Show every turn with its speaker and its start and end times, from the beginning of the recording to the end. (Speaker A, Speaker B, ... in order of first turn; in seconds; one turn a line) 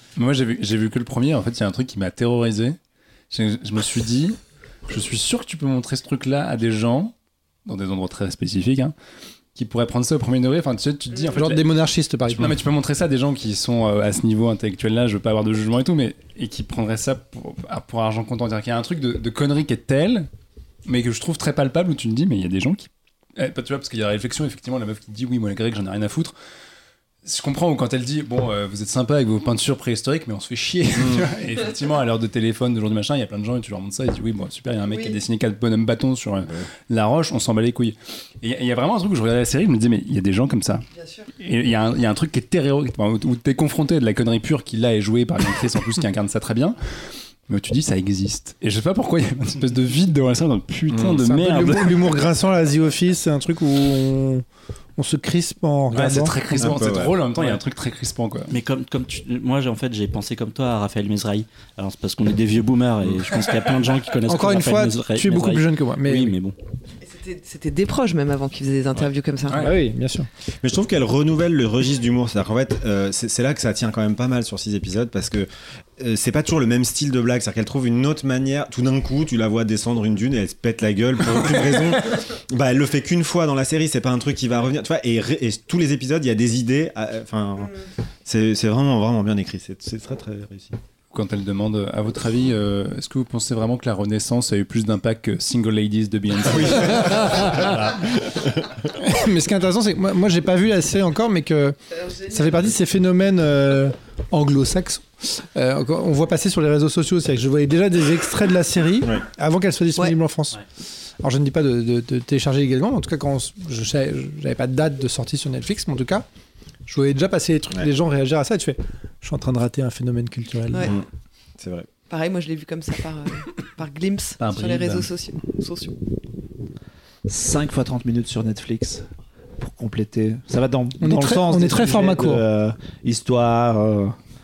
Speaker A: 0.2-2.8
Speaker A: 3.3-7.1
Speaker A: 7.6-8.9
Speaker A: 9.5-11.6
Speaker B: 11.3-12.6
Speaker A: 12.3-20.3
Speaker A: 20.8-26.3
Speaker A: 27.2-40.8
Speaker C: 30.9-31.3
Speaker D: 34.9-35.2
Speaker D: 40.9-41.3
Speaker A: 41.4-52.1
Speaker B: 51.1-54.4
Speaker B: 55.0-56.8
Speaker A: 55.9-58.5
Speaker C: 56.6-57.1
Speaker E: 57.3-57.6
Speaker E: 58.5-66.6
Speaker B: 64.3-66.3
Speaker D: 67.0-69.7
Speaker A: 69.5-69.7
Speaker B: 69.6-70.3
Speaker C: 70.6-90.8
Speaker A: 91.1-98.1
Speaker C: 96.5-98.7
Speaker B: 97.1-97.6
Speaker B: 99.0-110.6
Speaker B: 111.2-116.2
Speaker B: 116.9-120.9
Speaker C: 121.6-121.9
Speaker D: 122.1-126.0
Speaker A: 124.4-125.1
Speaker F: 127.2-129.1
Speaker F: 129.6-134.2
Speaker B: 131.0-132.4